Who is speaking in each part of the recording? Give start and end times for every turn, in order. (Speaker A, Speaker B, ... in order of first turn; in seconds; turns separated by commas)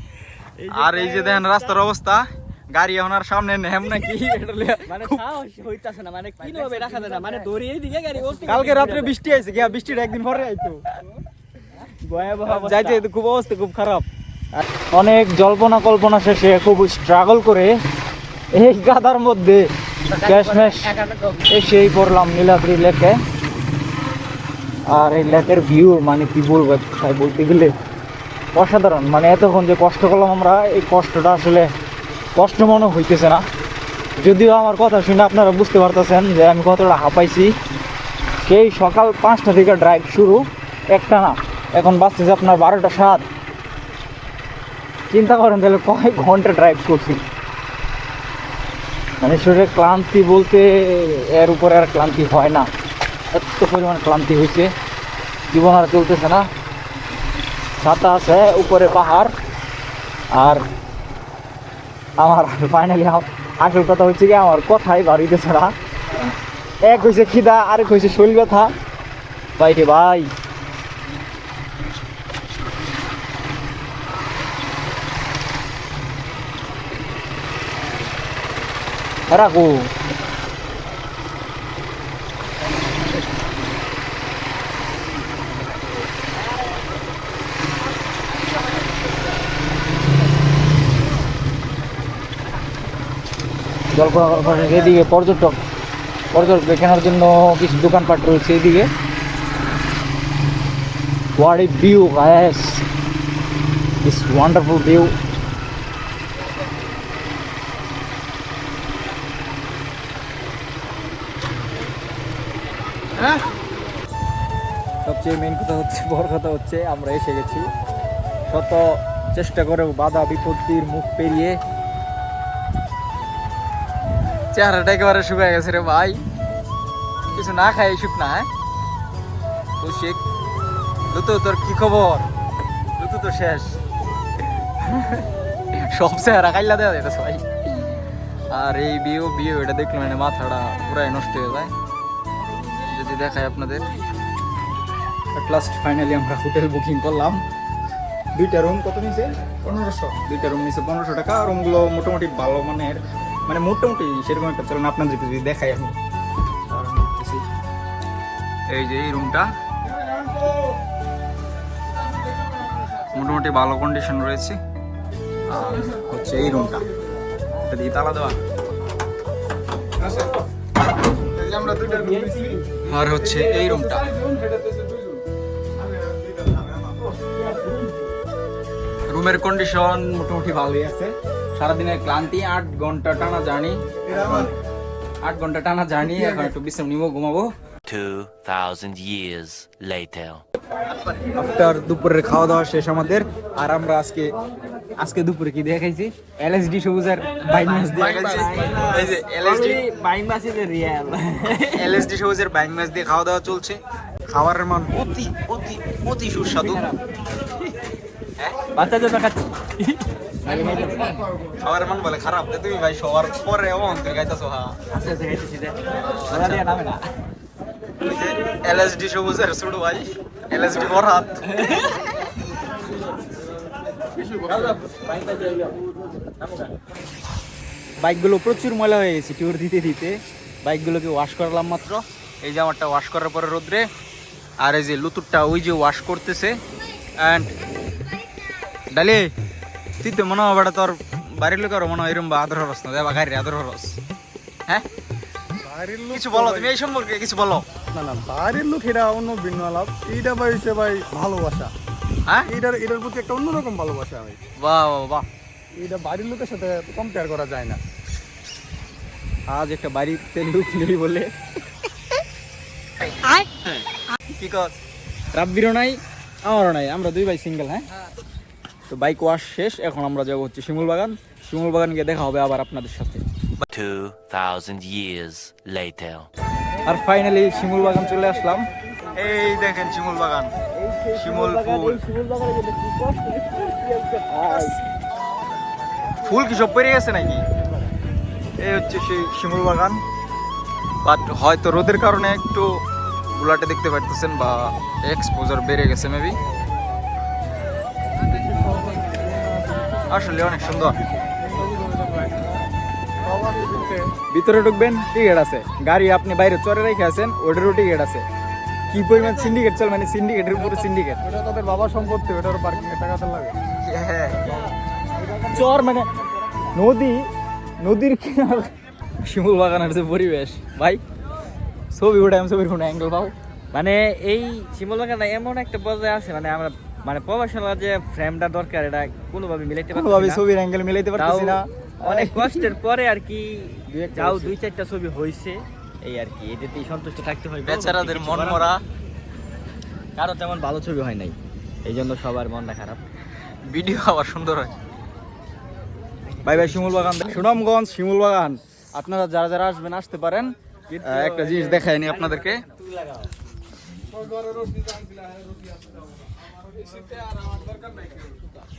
Speaker A: 0.6-1.8, Speaker B: 0.7-5.2, Speaker A: 4.9-9.2, Speaker B: 8.4-10.8, Speaker A: 12.0-13.0, Speaker B: 12.4-14.1, Speaker B: 14.9-17.7, Speaker B: 18.5-23.2, Speaker B: 24.9-27.7, Speaker B: 28.5-31.7, Speaker B: 32.4-33.4, Speaker B: 34.2-37.5, Speaker B: 38.4-43.2, Speaker B: 45.1-47.2, Speaker B: 49.2-52.7, Speaker B: 53.3-54.7, Speaker B: 55.5-56.5, Speaker B: 57.8-59.3, Speaker B: 60.3-60.6, Speaker B: 62.2-65.7, Speaker B: 66.8-68.7, Speaker B: 69.6-70.3, Speaker B: 79.3-79.9, Speaker B: 93.9-95.6, Speaker B: 96.3-98.9, Speaker B: 101.4-102.8, Speaker B: 104.0-105.1, Speaker B: 115.0-117.7, Speaker B: 118.5-121.6, Speaker B: 124.5-126.2, Speaker B: 127.3-128.5, Speaker B: 129.8-130.2, Speaker B: 131.1-132.3, Speaker B: 133.0-133.8, Speaker B: 134.9-135.2, Speaker B: 135.8-137.4, Speaker B: 138.5-141.7, Speaker B: 142.7-143.9, Speaker B: 145.3-147.4, Speaker B: 148.3-156.0, Speaker B: 156.7-157.4, Speaker B: 158.7-159.5, Speaker B: 163.1-164.6, Speaker B: 165.5-166.8, Speaker B: 167.7-168.4, Speaker C: 171.5-172.6, Speaker B: 171.5-172.1, Speaker B: 172.8-174.0, Speaker C: 174.2-175.2, Speaker C: 176.0-176.7, Speaker B: 179.1-184.5, Speaker B: 185.2-187.5, Speaker D: 187.9-190.4, Speaker B: 191.3-194.3, Speaker B: 195.0-199.8, Speaker A: 197.7-202.0, Speaker B: 201.7-206.8, Speaker A: 206.6-207.0, Speaker A: 208.7-211.2, Speaker B: 211.6-214.7, Speaker A: 214.9-217.0, Speaker B: 216.1-216.7, Speaker B: 218.0-221.4, Speaker A: 221.6-221.9, Speaker A: 224.2-225.7, Speaker B: 228.0-233.9, Speaker B: 234.6-236.6, Speaker B: 237.2-237.5, Speaker B: 238.9-239.3, Speaker B: 240.0-244.0, Speaker C: 245.6-246.7, Speaker B: 246.1-247.7, Speaker C: 247.9-251.7, Speaker C: 252.5-254.4, Speaker B: 254.6-255.2, Speaker C: 255.8-257.8, Speaker B: 259.5-261.3, Speaker B: 264.3-264.7, Speaker B: 265.3-267.8, Speaker B: 268.9-273.6, Speaker D: 273.7-276.3, Speaker B: 276.8-280.5, Speaker A: 280.7-284.8, Speaker B: 281.1-282.0, Speaker B: 286.2-287.4, Speaker B: 288.6-290.0, Speaker B: 291.0-292.8, Speaker B: 293.3-296.4, Speaker C: 298.4-299.9, Speaker B: 300.1-301.0, Speaker C: 301.4-302.5, Speaker C: 303.2-304.1, Speaker B: 304.3-308.2, Speaker B: 308.9-311.2, Speaker C: 311.2-313.6, Speaker B: 313.9-314.5, Speaker B: 315.5-316.1, Speaker B: 316.7-317.3, Speaker B: 317.8-318.7, Speaker B: 319.2-321.0, Speaker B: 321.9-323.3, Speaker A: 323.7-330.4, Speaker B: 329.9-332.6, Speaker A: 331.1-338.8, Speaker B: 333.9-334.6, Speaker B: 337.6-338.8, Speaker A: 340.1-343.0, Speaker B: 343.7-344.7, Speaker B: 346.4-350.5, Speaker A: 346.4-347.2, Speaker A: 350.9-352.6, Speaker B: 351.0-352.6, Speaker C: 354.2-355.4, Speaker C: 356.7-358.2